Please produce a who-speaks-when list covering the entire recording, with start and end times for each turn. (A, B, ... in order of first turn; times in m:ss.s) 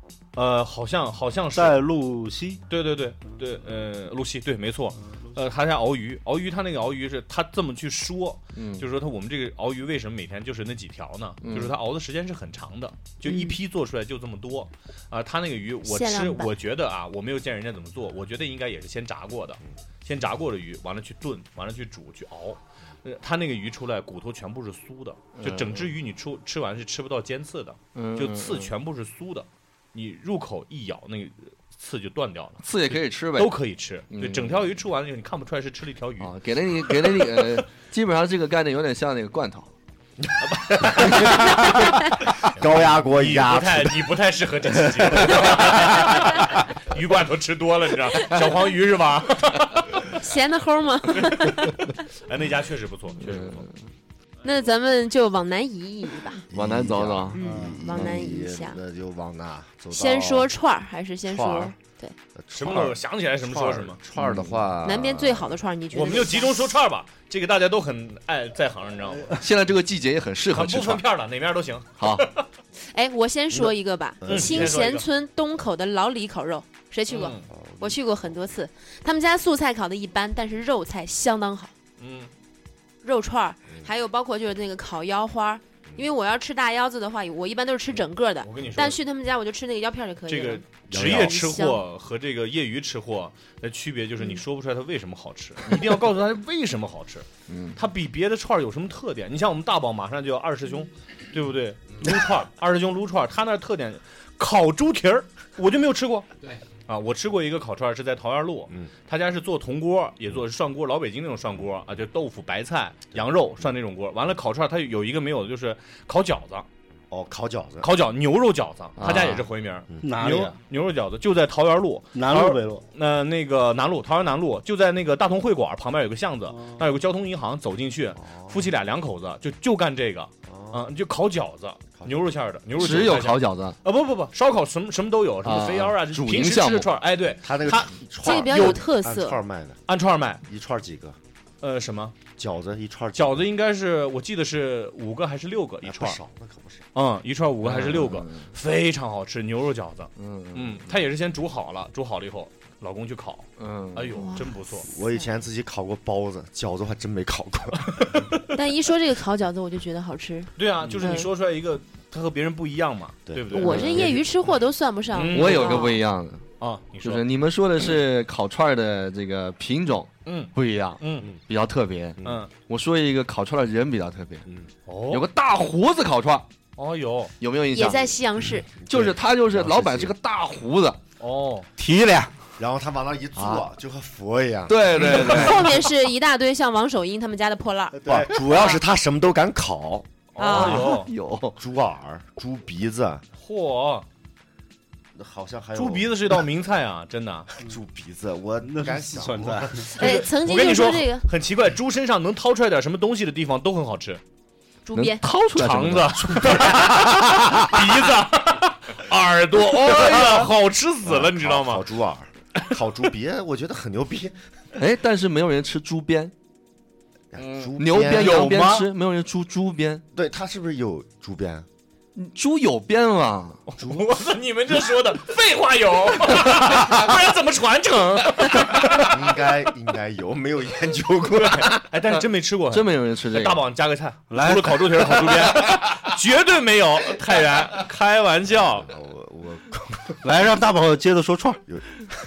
0:00.4-0:01.8 A
0:01.5-0:02.6 B
0:02.7-0:36.3 A
0:08.6-0:08.8 C
0:11.4-0:11.7 C
0:13.2-0:13.6 D
0:15.8-0:16.5 D
0:25.4-0:25.9 C
0:27.9-0:28.7 C
0:32.6-0:33.5 C
0:34.1-0:34.6 C
0:36.2-0:39.7 C
0:40.5-0:41.7 A
0:40.7-0:44.1 E
0:41.0-0:41.4 C
0:42.4-0:50.1 A
0:44.8-0:46.2 E
0:50.1-0:52.0 D
0:51.2-0:53.6 A
0:53.2-0:53.8 C
0:54.4-0:56.4 D
0:56.5-1:00.5 E
0:56.5-0:58.2 C
0:57.3-0:58.8 D
0:59.9-1:02.1 D
1:01.3-1:01.7 E
1:02.3-1:05.6 E
1:02.5-1:04.0 A
1:04.2-1:04.6 C
1:04.8-1:06.7 D
1:05.9-1:09.3 A
1:09.3-1:11.0 C
1:10.5-1:12.5 A
1:12.0-1:12.3 C
1:12.9-1:21.7 D
1:14.2-1:14.9 E
1:14.3-1:15.1 A
1:17.1-1:17.5 A
1:17.5-1:18.0 E
1:22.0-1:22.3 A
1:23.0-1:31.8 D
1:28.4-1:29.0 A
1:30.3-1:46.3 A
1:30.9-1:31.4 E
1:37.5-1:37.8 C
1:46.9-1:56.6 A
1:57.1-1:57.9 E
1:57.8-2:18.8 A
1:59.0-1:59.4 C
2:00.0-2:00.6 B
2:02.1-2:02.8 B
2:08.2-2:08.6 E
2:10.4-2:10.8 E
2:12.8-2:13.8 C
2:15.4-2:16.9 C
2:17.4-2:19.8 E
2:18.2-2:19.4 D
2:19.9-2:20.4 A
2:20.4-2:21.2 E
2:21.6-2:22.2 A
2:22.4-2:23.4 E
2:23.1-2:26.2 A
2:25.8-2:26.8 E
2:26.9-2:34.9 A
2:27.6-2:28.5 C
2:30.2-2:30.8 C
2:33.6-2:34.3 C
2:34.1-2:35.2 D
2:34.8-2:38.2 E
2:37.9-2:38.4 A
2:38.5-2:41.3 D
2:40.6-2:44.0 A
2:43.3-2:44.2 E
2:43.5-2:46.0 D
2:43.6-2:44.2 C
2:45.1-2:46.0 A
2:45.3-2:46.4 C
2:46.6-2:47.2 A
2:47.0-2:54.4 C
2:50.2-2:51.3 A
2:52.2-2:52.4 E
2:52.2-2:52.5 A
2:54.8-2:55.2 A
2:55.1-2:56.5 C
2:56.8-2:57.3 A
2:57.4-2:58.1 C
2:57.7-2:58.7 D
2:58.8-3:00.1 E
2:58.9-3:01.0 C
3:01.2-3:01.7 A
3:01.8-3:02.5 B
3:02.6-3:05.1 E
3:03.4-3:03.6 C
3:04.7-3:05.8 C
3:05.0-3:08.8 D
3:08.0-3:10.1 E
3:10.3-3:11.1 A
3:10.4-3:11.0 D
3:10.4-3:11.6 C
3:11.6-3:13.2 E
3:13.4-3:14.0 A
3:15.2-3:16.4 E
3:15.7-3:17.5 A
3:17.6-3:19.9 E
3:18.6-3:20.0 B
3:20.0-3:24.2 A
3:20.0-3:21.3 D
3:24.8-3:25.2 D
3:24.9-3:27.6 C
3:25.5-3:31.8 A
3:29.9-3:30.5 E
3:31.0-3:34.4 E
3:34.8-3:36.3 C
3:37.3-3:38.5 E
3:37.4-3:40.0 C
3:38.1-3:38.9 B
3:40.1-3:41.7 E
3:42.2-3:43.6 C
3:43.7-3:49.2 A
3:43.8-3:44.2 E
3:48.8-3:51.8 E
3:51.3-3:58.9 A
3:52.1-3:53.6 C
3:54.3-3:55.3 B
3:58.7-4:00.2 E
4:00.2-4:01.6 B
4:01.7-4:02.0 E